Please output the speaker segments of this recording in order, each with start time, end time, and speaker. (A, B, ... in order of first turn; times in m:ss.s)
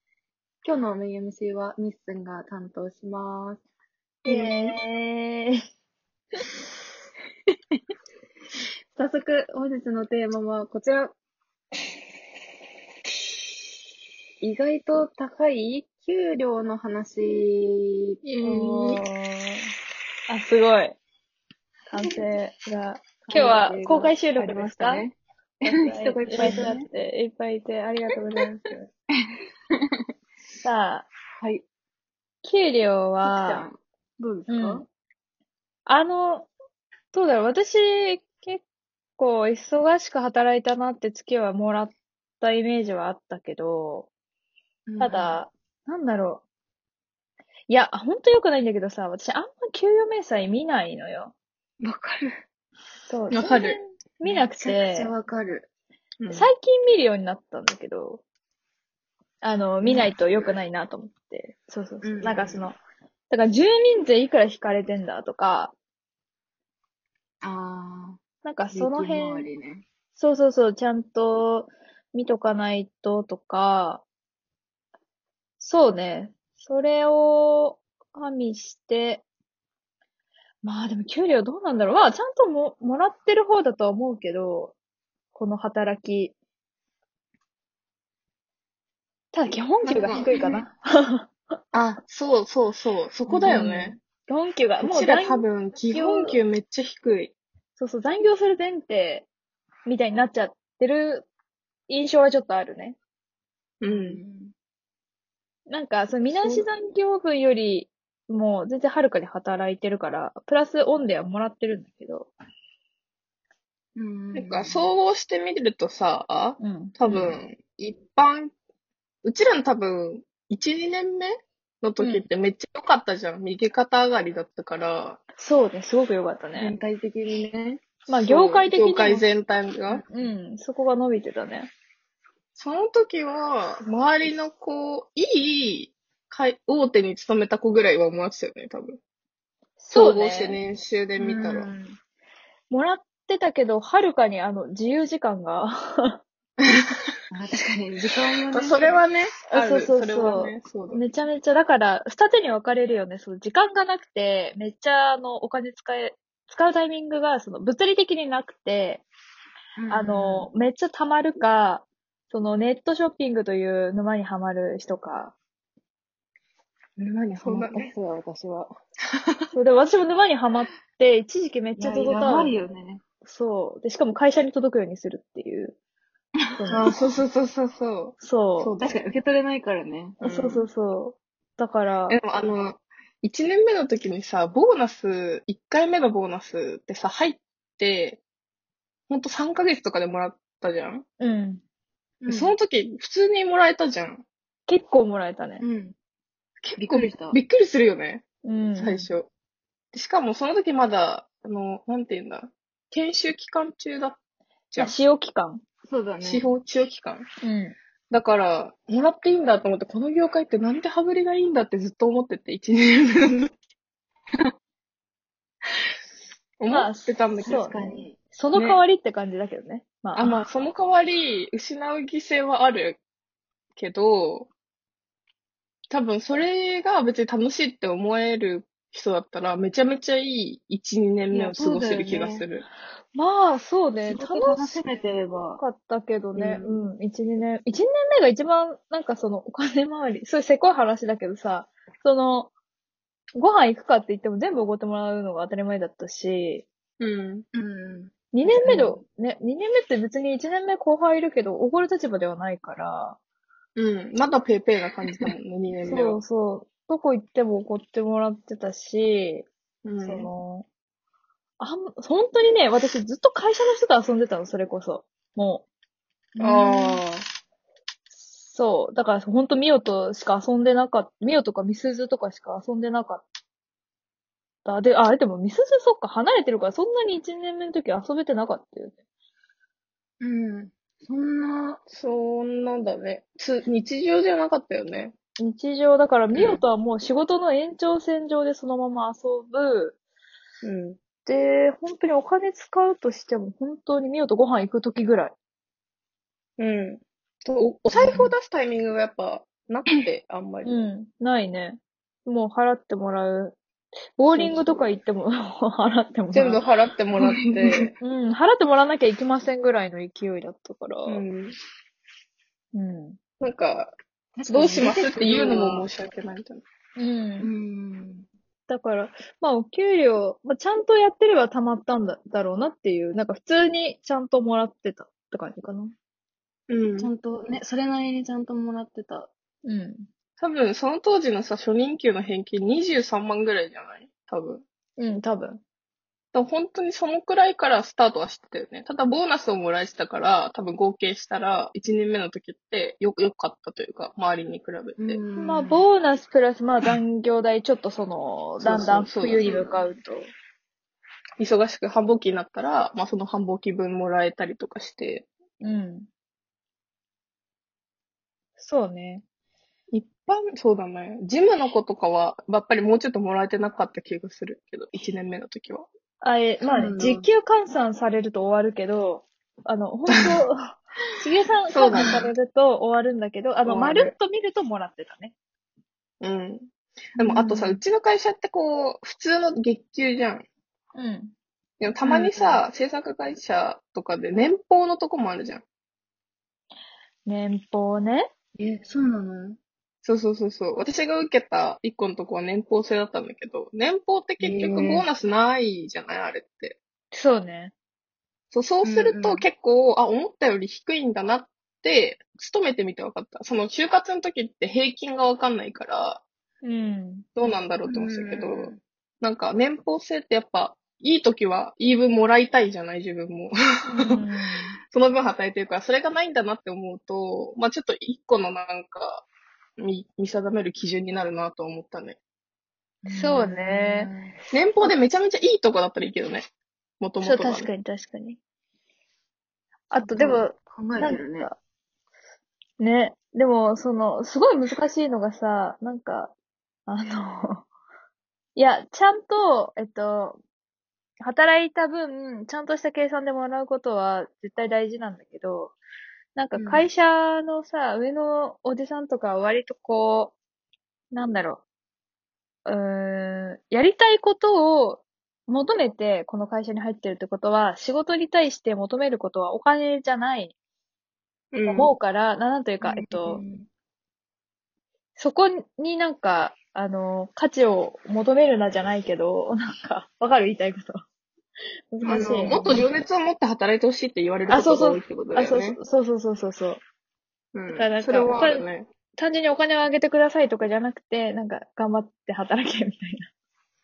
0:00.6-0:03.6 A
0:04.2-0:05.6 B
0:04.3-0:04.8 A
0:09.0-0:11.1 A
0:14.4-0:18.2 A
0:18.2-0:19.0 C
0:18.4-0:19.7 B
0:20.3-0:21.0 B
0:21.9-0:25.1 B
0:23.2-0:25.2 A
0:25.6-0:28.9 B
0:25.7-0:26.8 A
0:26.4-0:26.7 C
0:30.6-0:31.1 B
0:31.4-0:31.6 A
0:32.4-0:33.7 B
0:33.2-0:34.8 A
0:34.5-0:34.8 B
0:35.9-0:36.5 B
0:37.1-0:38.6 B
0:39.2-0:44.1 B
0:44.9-0:45.4 A
0:45.0-0:46.4 B
0:47.7-0:51.3 B
0:51.8-0:52.3 A
0:53.1-0:55.1 B
0:53.3-0:53.8 C
0:54.2-0:55.7 A
0:56.2-0:56.5 C
0:56.3-0:58.2 B
0:59.4-1:02.8 B
0:59.8-1:00.1 A
1:02.0-1:02.7 A
1:03.3-1:05.8 B
1:07.4-1:08.2 A
1:08.4-1:09.5 B
1:08.7-1:09.8 A
1:10.2-1:14.0 B
1:15.6-1:19.2 B
1:20.6-1:24.8 B
1:25.3-1:26.4 B
1:29.3-1:31.3 B
1:29.8-1:30.6 A
1:30.0-1:30.3 C
1:31.7-1:32.0 A
1:32.1-1:34.0 C
1:33.3-1:33.6 A
1:33.4-1:36.4 B
1:34.8-1:37.3 C
1:37.8-1:39.3 B
1:39.9-1:41.3 B
1:41.9-1:43.0 B
1:43.8-1:44.2 C
1:43.8-1:44.5 A
1:45.7-1:52.3 B
1:46.3-1:46.7 A
1:54.0-1:54.9 A
1:54.3-1:58.5 C
1:56.6-1:56.9 B
1:57.0-1:57.4 A
1:59.2-2:05.2 C
2:02.0-2:02.2 A
2:05.4-2:06.7 B
2:06.6-2:07.8 A
2:08.1-2:09.2 B
2:08.1-2:10.0 C
2:10.1-2:11.7 B
2:12.6-2:19.0 C
2:19.8-2:20.6 B
2:19.9-2:21.7 C
2:21.2-2:22.0 A
2:22.7-2:26.2 B
2:27.3-2:29.0 A
2:28.5-2:31.0 C
2:29.5-2:39.0 B
2:39.8-2:40.5 A
2:39.9-2:45.4 B
2:47.0-2:48.7 A
2:47.3-2:47.9 C
2:49.5-2:52.6 B
2:51.8-2:53.0 A
2:53.2-2:55.8 B
2:56.6-2:56.9 B
2:56.6-2:56.9 A
2:56.7-2:58.2 C
2:58.2-2:58.7 B
2:58.6-3:00.2 A
3:00.2-3:02.2 B
3:00.2-3:00.6 C
3:02.1-3:08.2 C
3:09.1-3:11.1 C
3:11.2-3:11.6 B
3:12.2-3:12.6 A
3:12.3-3:14.2 C
3:14.7-3:15.6 B
3:15.6-3:16.0 A
3:16.6-3:18.2 C
3:16.8-3:17.4 A
3:18.4-3:19.1 B
3:18.8-3:19.3 C
3:19.9-3:24.2 C
3:24.8-3:25.6 B
3:25.9-3:26.5 A
3:26.2-3:27.3 C
3:27.4-3:27.8 B
3:28.1-3:33.5 C
3:36.6-3:37.6 C
3:36.7-3:40.5 B
3:37.4-3:38.2 A
3:38.5-3:38.8 C
3:40.2-3:43.0 C
3:43.8-3:44.5 C
3:45.9-3:52.6 C
3:51.3-3:52.4 A
3:53.1-3:54.8 B
3:54.0-3:55.6 A
3:55.6-4:02.5 B
3:56.4-3:56.8 C
4:03.4-4:06.7 B
4:07.0-4:07.5 C
4:07.5-4:09.0 A
4:08.3-4:13.2 B
4:13.8-4:16.2 C
4:15.8-4:19.5 B
4:19.8-4:20.3 C
4:20.0-4:20.7 B
4:21.6-4:25.7 B
4:26.4-4:27.0 B
4:26.4-4:27.1 C
4:28.2-4:33.3 B
4:34.6-4:39.0 B
4:40.2-4:41.8 A
4:41.9-4:45.1 C
4:45.4-4:50.0 B
4:46.4-4:46.6 C
4:50.6-4:51.0 C
4:51.3-4:55.4 B
4:56.6-5:00.8 C
4:57.9-4:58.3 A
5:00.6-5:03.6 B
5:04.2-5:06.6 B
5:04.3-5:04.8 C
5:06.3-5:07.9 C
5:07.2-5:07.9 A
5:08.0-5:11.2 B
5:11.1-5:11.6 C
5:12.7-5:13.2 B
5:13.4-5:14.0 C
5:14.4-5:15.9 A
5:14.5-5:16.6 C
5:17.0-5:17.5 B
5:17.4-5:18.3 A
5:18.7-5:25.9 B
5:26.7-5:27.1 C
5:27.0-5:29.3 A
5:29.6-5:30.1 B
5:30.4-5:34.6 C
5:35.0-5:35.6 B
5:36.3-5:45.2 C
5:45.0-5:45.8 A
5:45.4-5:50.3 B
5:48.6-5:49.8 C
5:51.4-5:55.3 C
5:55.6-5:56.1 B
5:58.6-5:59.2 B
5:59.9-6:05.9 C
6:06.2-6:15.3 B
6:06.7-6:07.3 A
6:11.7-6:12.3 C
6:13.6-6:14.1 C
6:16.2-6:16.7 C
6:17.2-6:20.4 C
6:17.2-6:17.8 B
6:21.0-6:21.3 B
6:21.8-6:25.6 C
6:22.0-6:22.6 B
6:27.3-6:28.3 B
6:28.6-6:29.6 A
6:30.0-6:36.8 C
6:34.4-6:35.1 A
6:37.1-6:37.7 B
6:38.5-6:46.2 C
6:38.8-6:39.5 A
6:46.6-6:47.3 B
6:47.4-6:54.2 C
6:47.9-6:48.8 A
6:53.9-6:54.8 B
6:54.9-6:59.3 C
6:59.8-7:02.2 C
7:03.0-7:04.4 A
7:03.1-7:04.1 B
7:04.5-7:06.4 C
7:07.0-7:07.7 C
7:07.2-7:08.4 B
7:09.9-7:11.6 B
7:10.0-7:11.5 A
7:12.8-7:16.3 B
7:16.9-7:17.7 B
7:18.6-7:20.4 B
7:21.2-7:25.8 B
7:26.4-7:30.4 B
7:26.6-7:26.9 A
7:31.1-7:31.6 B
7:32.7-7:40.5 B
7:41.5-7:42.0 C
7:41.7-7:43.4 B
7:42.8-7:43.7 A
7:45.2-7:51.0 B
7:51.9-7:52.8 B
7:52.0-7:52.9 A
7:52.1-7:55.8 C
7:54.5-7:56.8 B
7:57.5-7:58.9 C
7:57.7-7:58.7 B
7:59.2-8:03.3 B